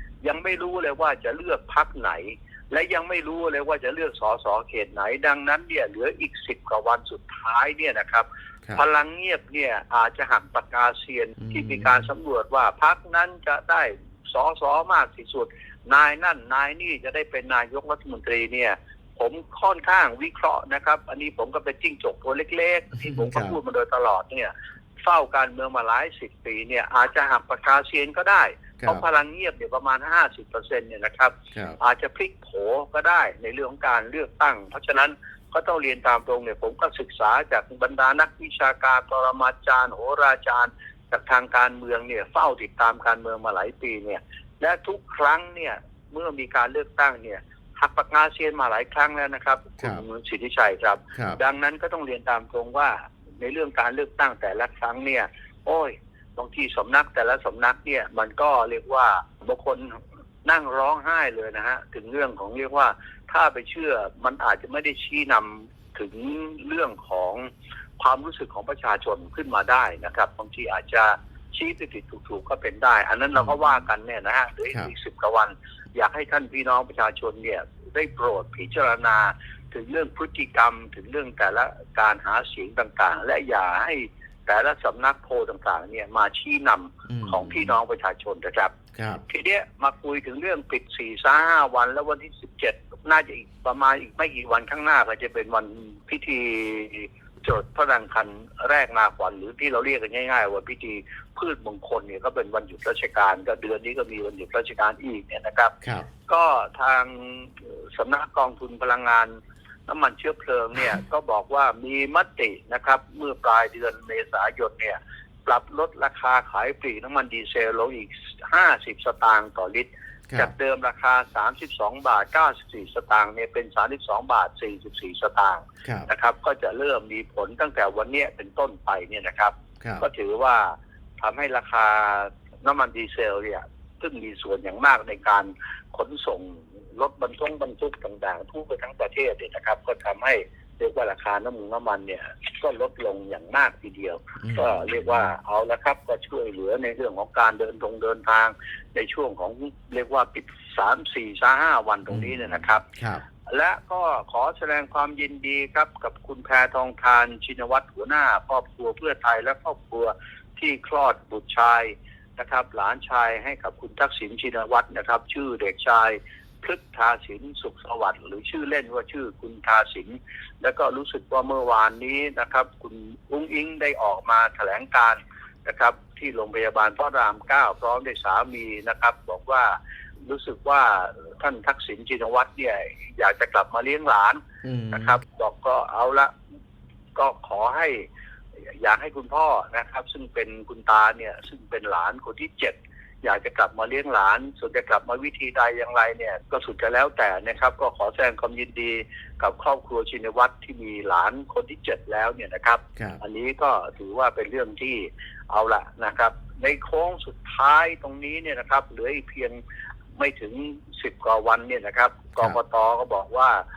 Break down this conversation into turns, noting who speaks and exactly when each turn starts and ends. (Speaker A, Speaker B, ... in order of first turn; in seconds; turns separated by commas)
Speaker A: 0.2-24.5, Speaker B: 11.4-12.1, Speaker B: 23.0-23.6, Speaker A: 25.0-88.8, Speaker B: 31.5-31.8, Speaker B: 51.1-51.4, Speaker B: 87.1-87.8, Speaker B: 89.0-89.2, Speaker A: 89.3-105.7, Speaker B: 105.8-106.1, Speaker A: 106.3-109.4, Speaker A: 109.9-152.8, Speaker B: 125.8-126.1, Speaker B: 129.8-130.1, Speaker B: 144.4-145.3, Speaker B: 152.1-153.2, Speaker A: 153.5-186.3, Speaker B: 184.6-185.2, Speaker A: 187.2-188.1, Speaker A: 188.8-209.6, Speaker A: 210.2-213.6